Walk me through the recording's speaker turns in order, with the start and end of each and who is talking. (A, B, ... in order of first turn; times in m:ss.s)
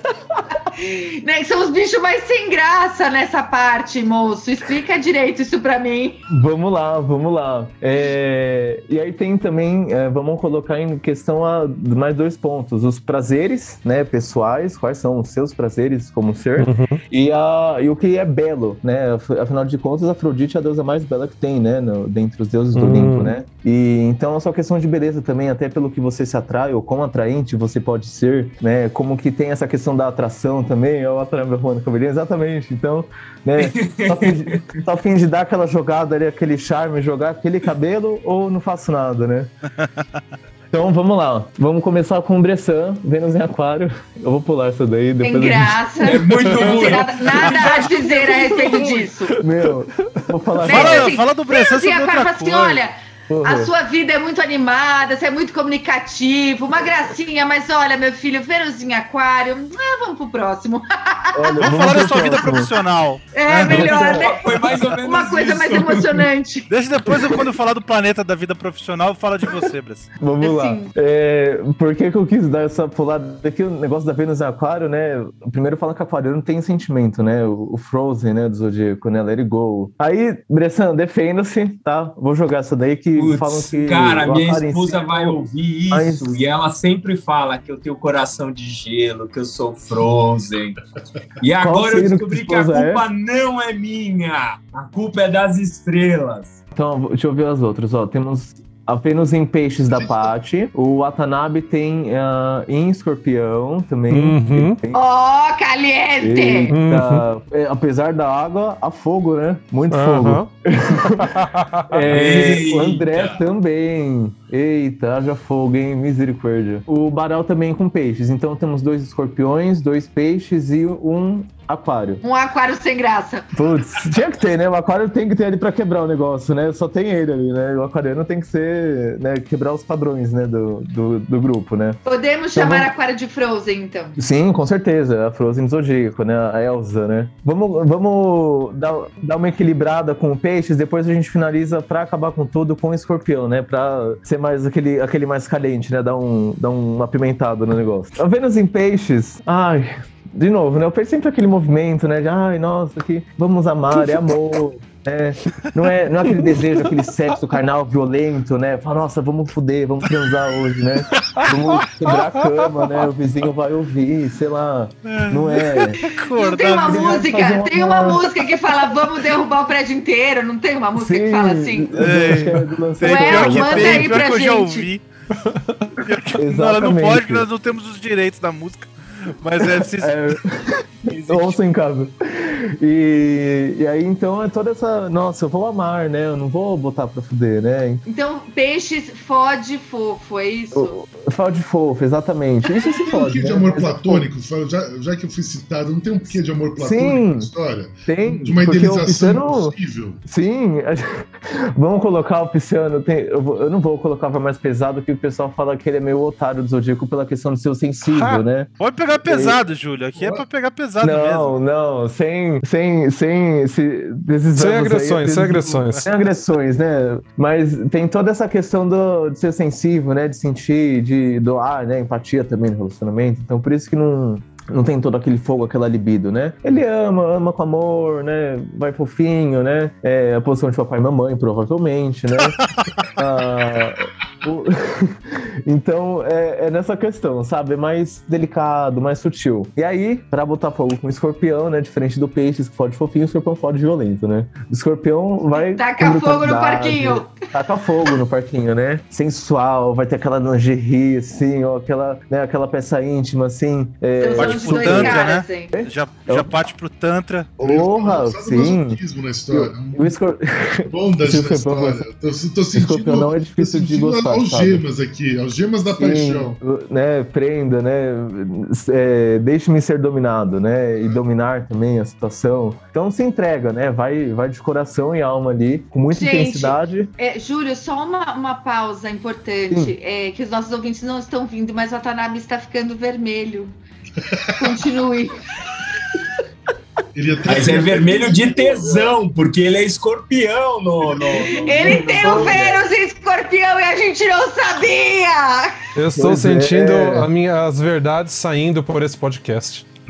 0:00.6-0:06.2 A
0:06.3-0:39.5 B
0:16.6-0:17.0 C
0:22.7-0:23.3 C
0:33.6-0:34.6 D
0:40.7-0:47.0 B
0:45.2-0:49.4 A
0:46.0-0:49.0 D
0:49.4-0:51.1 B
0:50.6-0:52.9 E
0:50.6-1:01.4 A
0:53.3-0:53.7 B
1:01.3-1:02.7 B
1:01.6-1:04.0 E
1:03.3-1:06.7 A
1:03.7-1:06.3 D
1:03.9-1:04.2 B
1:06.7-1:10.1 E
1:10.2-1:26.4 B
1:10.4-1:10.9 A
1:23.1-1:30.8 D
1:31.4-1:36.6 D
1:31.6-1:33.0 B
1:36.7-1:45.0 B
1:39.9-1:40.3 F
1:44.1-1:44.8 C
1:44.9-1:46.7 A
1:46.2-2:02.2 B
1:46.7-1:47.2 C
1:49.9-1:50.5 C
1:51.2-1:52.4 C
1:52.1-1:53.4 D
2:02.2-2:03.5 A
2:03.5-2:12.0 B
2:12.0-2:14.2 A
2:12.5-2:12.9 B
2:14.2-2:46.0 B
2:41.4-2:42.7 C
2:45.0-2:47.3 E
2:46.3-2:52.0 A
2:46.8-2:48.2 B
2:50.9-2:54.2 B
2:52.0-2:55.0 E
2:53.0-2:54.9 A
2:56.0-3:00.2 E
2:56.3-2:57.5 B
3:00.0-3:08.0 B
3:01.1-3:01.6 D
3:08.0-3:10.9 A
3:10.7-3:14.3 B
3:13.0-3:20.2 F
3:16.8-3:17.5 B
3:18.0-3:28.7 B
3:28.8-3:31.6 E
3:29.2-3:29.6 B
3:30.2-3:30.4 F
3:31.0-3:52.6 B
3:34.5-3:36.0 C
3:53.2-4:16.6 B
4:05.5-4:07.3 A
4:14.2-4:15.7 A
4:14.4-4:17.6 E
4:17.6-4:19.0 B
4:17.6-4:20.1 F
4:19.5-4:22.1 B
4:20.9-4:26.6 F
4:22.7-4:24.8 B
4:26.0-4:37.1 B
4:36.1-4:43.7 A
4:44.5-4:44.8 F
4:44.6-4:45.9 A
4:47.1-4:49.1 F
4:47.5-4:52.6 D
4:51.0-4:52.5 F
4:51.5-4:55.7 A
4:52.2-4:52.8 B
4:56.0-4:59.8 C
4:56.1-4:57.3 B